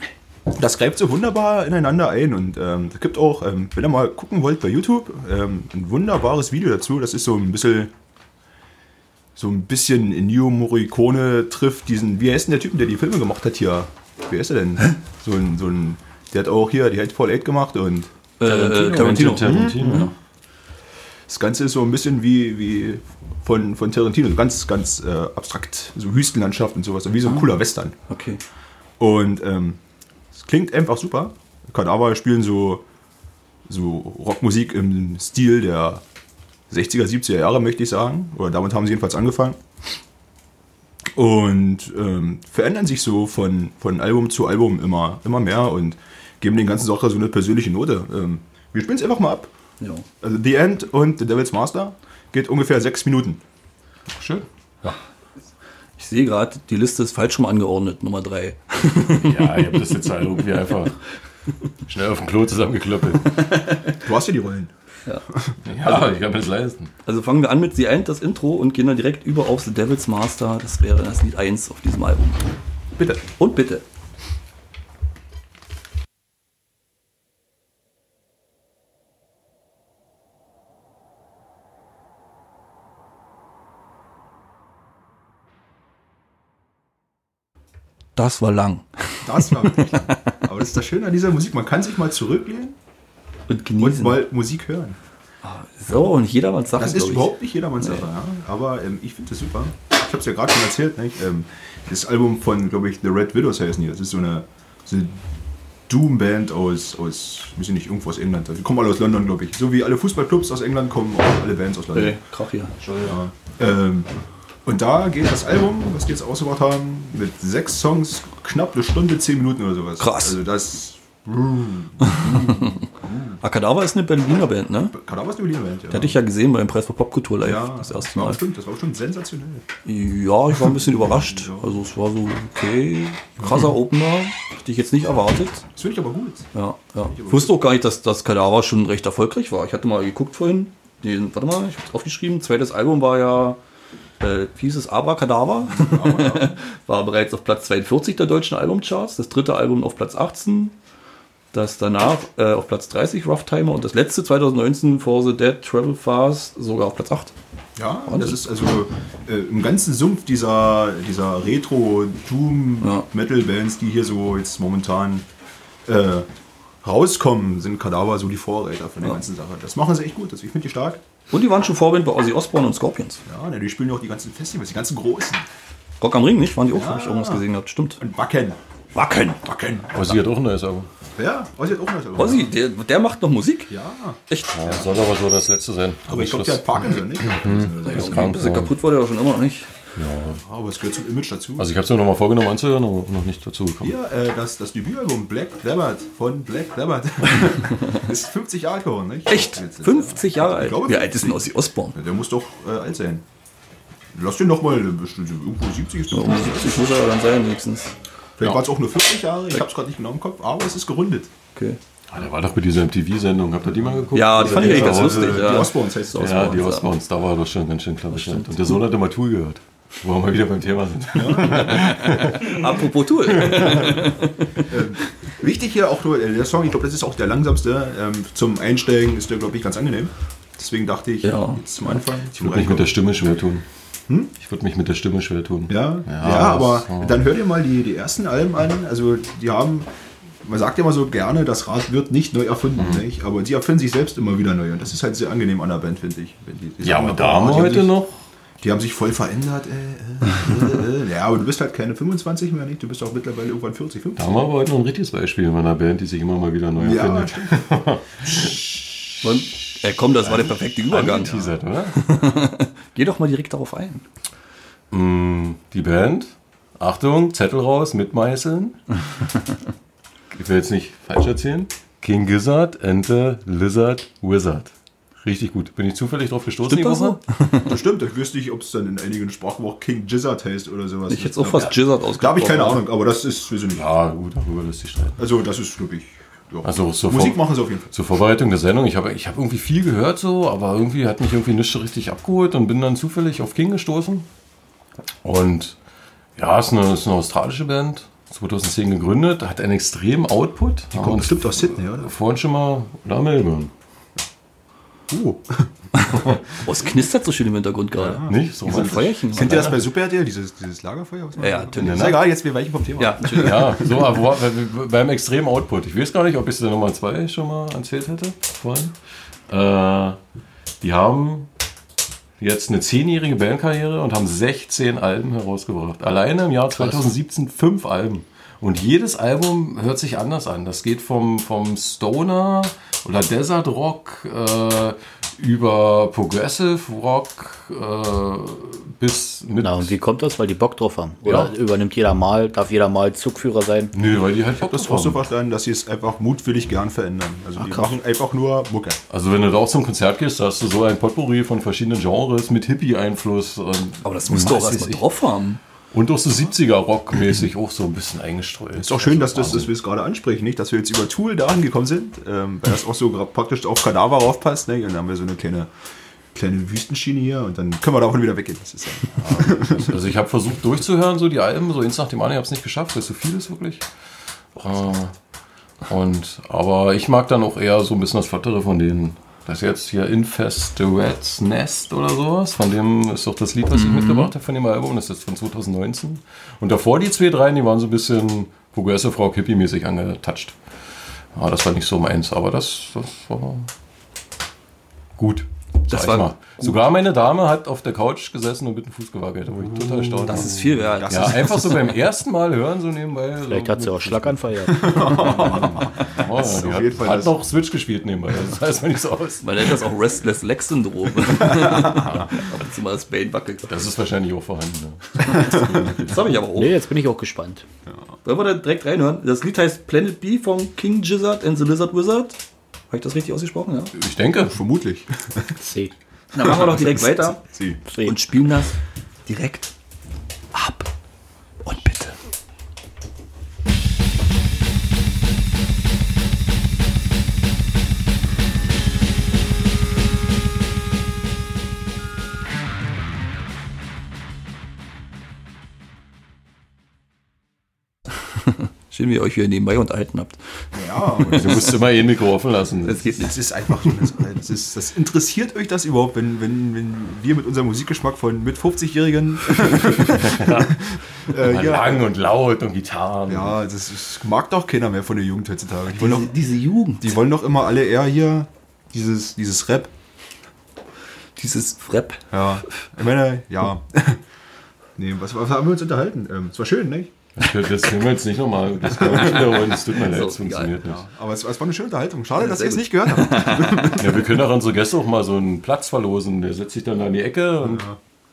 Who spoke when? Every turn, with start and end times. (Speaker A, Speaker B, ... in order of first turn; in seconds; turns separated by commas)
Speaker A: 0.5-7.9, Speaker A: 9.3-18.1, Speaker B: 18.4-20.1, Speaker C: 18.4-20.1, Speaker A: 19.4-20.1, Speaker A: 21.3-27.9, Speaker B: 28.1-28.4, Speaker A: 29.0-29.8, Speaker A: 30.3-32.8, Speaker A: 33.7-36.0, Speaker A: 36.7-39.6, Speaker A: 41.1-49.5, Speaker A: 50.2-53.4, Speaker C: 54.1-54.9, Speaker B: 56.0-59.8, Speaker C: 59.2-61.0, Speaker C: 61.9-63.4, Speaker B: 63.4-64.0, Speaker A: 64.0-64.7, Speaker C: 65.6-66.9, Speaker B: 65.8-66.1, Speaker B: 67.0-72.4, Speaker A: 73.0-73.3, Speaker B: 73.4-73.8, Speaker B: 88.2-90.3, Speaker A: 89.2-92.8, Speaker B: 93.5-94.3, Speaker A: 93.8-95.0, Speaker B: 95.4-98.1, Speaker A: 96.8-105.2, Speaker A: 105.9-112.2, Speaker B: 111.9-112.8, Speaker D: 112.8-113.1, Speaker A: 113.0-114.1, Speaker A: 114.6-123.4, Speaker B: 120.0-120.4, Speaker B: 122.0-122.8, Speaker B: 123.4-124.9, Speaker A: 124.9-126.2, Speaker B: 125.9-128.4, Speaker A: 127.4-129.7, Speaker B: 129.8-135.7, Speaker A: 130.6-131.7, Speaker A: 133.4-133.7, Speaker A: 135.8-136.5, Speaker B: 136.5-143.6, Speaker A: 137.1-137.5, Speaker B: 144.2-150.7, Speaker A: 145.7-146.6, Speaker B: 151.5-157.3, Speaker A: 157.8-165.3, Speaker B: 158.1-158.4, Speaker B: 162.8-163.1, Speaker A: 165.8-166.3, Speaker A: 166.8-171.0, Speaker B: 171.3-173.2, Speaker A: 173.2-175.4, Speaker B: 176.0-178.0, Speaker A: 176.7-177.4, Speaker A: 178.0-178.6, Speaker B: 178.9-179.4, Speaker A: 179.4-180.2, Speaker C: 179.9-180.9, Speaker A: 181.2-182.5, Speaker B: 182.2-183.7, Speaker A: 183.7-184.9, Speaker B: 184.3-184.7, Speaker C: 184.5-188.7, Speaker A: 186.1-188.3, Speaker B: 187.8-189.7, Speaker C: 189.9-190.4, Speaker A: 190.4-191.7, Speaker C: 191.6-193.9, Speaker A: 193.8-203.2, Speaker B: 199.3-202.0, Speaker A: 204.1-206.9, Speaker B: 206.1-207.9, Speaker A: 208.4-211.3, Speaker C: 212.1-222.6, Speaker A: 213.9-216.7, Speaker B: 214.1-216.9, Speaker B: 218.1-218.8, Speaker A: 221.1-221.9, Speaker B: 222.1-224.8, Speaker C: 223.3-223.8, Speaker A: 224.7-232.9, Speaker B: 231.2-231.6, Speaker C: 232.3-233.6, Speaker C: 234.4-237.1, Speaker A: 235.7-239.9, Speaker A: 240.4-247.9, Speaker C: 246.8-248.2, Speaker A: 248.6-254.5, Speaker C: 254.2-258.5, Speaker A: 256.8-257.8, Speaker B: 259.2-264.0, Speaker C: 260.9-262.0, Speaker C: 264.9-268.8, Speaker C: 270.3-277.2, Speaker B: 276.6-277.7, Speaker A: 277.6-283.8, Speaker B: 281.1-282.9, Speaker C: 283.7-285.2, Speaker A: 285.2-287.9, Speaker C: 286.6-294.3, Speaker C: 295.2-295.8, Speaker C: 296.4-303.7, Speaker A: 300.9-302.1, Speaker A: 305.1-305.7, Speaker B: 306.0-309.7, Speaker A: 307.9-314.1, Speaker C: 308.2-309.8, Speaker B: 311.4-312.2, Speaker C: 311.8-312.2, Speaker B: 313.0-313.8, Speaker C: 313.3-318.9, Speaker C: 319.5-320.2, Speaker C: 320.8-321.5, Speaker C: 322.4-339.9, Speaker D: 339.6-343.9, Speaker C: 341.2-341.5, Speaker C: 343.9-345.2, Speaker A: 344.6-349.0, Speaker D: 347.6-347.9, Speaker C: 349.1-355.0, Speaker B: 354.0-355.6, Speaker C: 355.9-359.7, Speaker A: 358.8-365.7, Speaker A: 366.3-370.0, Speaker C: 369.2-373.9, Speaker C: 374.5-375.1, Speaker C: 375.9-390.6, Speaker B: 383.7-384.3, Speaker C: 391.3-393.7, Speaker C: 395.2-409.7, Speaker B: 395.9-396.9, Speaker A: 399.6-401.8, Speaker B: 400.3-401.9, Speaker D: 403.4-405.1, Speaker A: 404.6-407.4, Speaker B: 409.4-413.7, Speaker A: 411.3-412.2, Speaker C: 411.9-412.3, Speaker C: 413.7-416.1, Speaker A: 415.3-415.9, Speaker B: 415.8-416.8, Speaker D: 416.6-417.6, Speaker B: 418.2-422.4, Speaker B: 422.9-423.9, Speaker C: 424.0-424.6, Speaker A: 424.4-425.6, Speaker D: 425.6-425.9, Speaker B: 426.3-427.4, Speaker A: 426.4-427.8, Speaker D: 427.9-428.1, Speaker B: 427.9-428.7, Speaker B: 429.2-429.7, Speaker B: 430.5-430.9, Speaker B: 431.6-432.1, Speaker B: 448.9-450.6, Speaker A: 450.7-451.7, Speaker B: 451.2-451.7, Speaker C: 451.3-453.1, Speaker B: 452.9-453.3, Speaker A: 453.1-462.1, Speaker C: 459.9-460.8, Speaker C: 461.3-463.6, Speaker A: 463.3-466.4, Speaker B: 465.9-467.2, Speaker A: 466.9-469.9, Speaker B: 471.4-472.2, Speaker A: 472.3-474.2, Speaker A: 475.0-477.1, Speaker C: 477.4-481.0, Speaker A: 478.8-479.8, Speaker B: 479.1-480.8, Speaker A: 480.8-484.3, Speaker B: 482.4-483.9, Speaker C: 484.0-487.9, Speaker A: 487.6-488.0